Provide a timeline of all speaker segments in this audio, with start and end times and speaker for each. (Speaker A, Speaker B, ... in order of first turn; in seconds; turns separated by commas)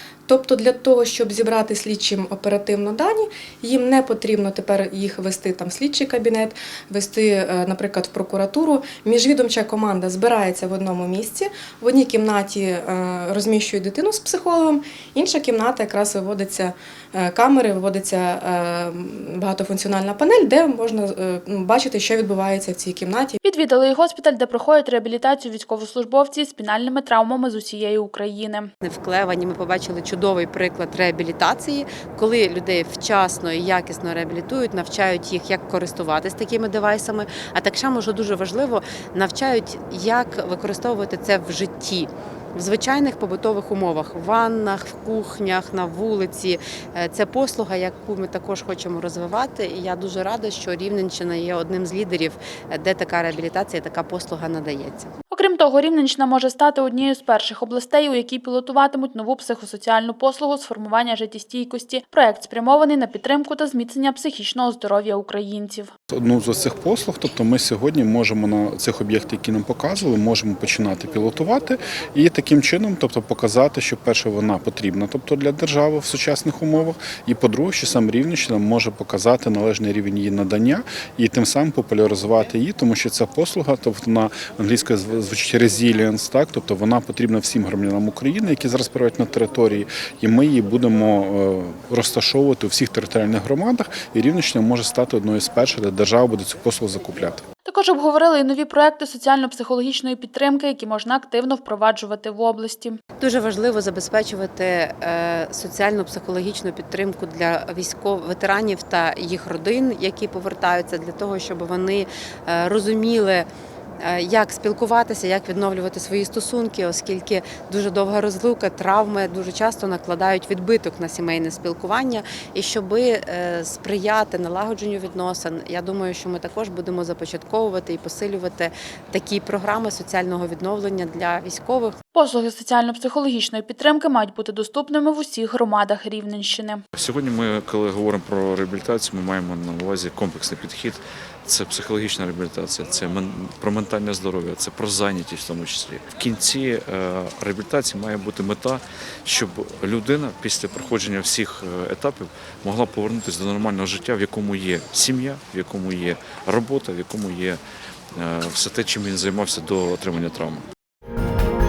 Speaker A: 0.3-23.4, Speaker B: 23.4-28.7, Speaker C: 28.8-55.1, Speaker B: 55.3-65.9, Speaker D: 66.1-97.5, Speaker B: 97.7-103.0, Speaker C: 103.2-113.5, Speaker C: 114.0-132.0, Speaker B: 132.1-136.8, Speaker E: 136.9-157.6, Speaker E: 158.2-160.7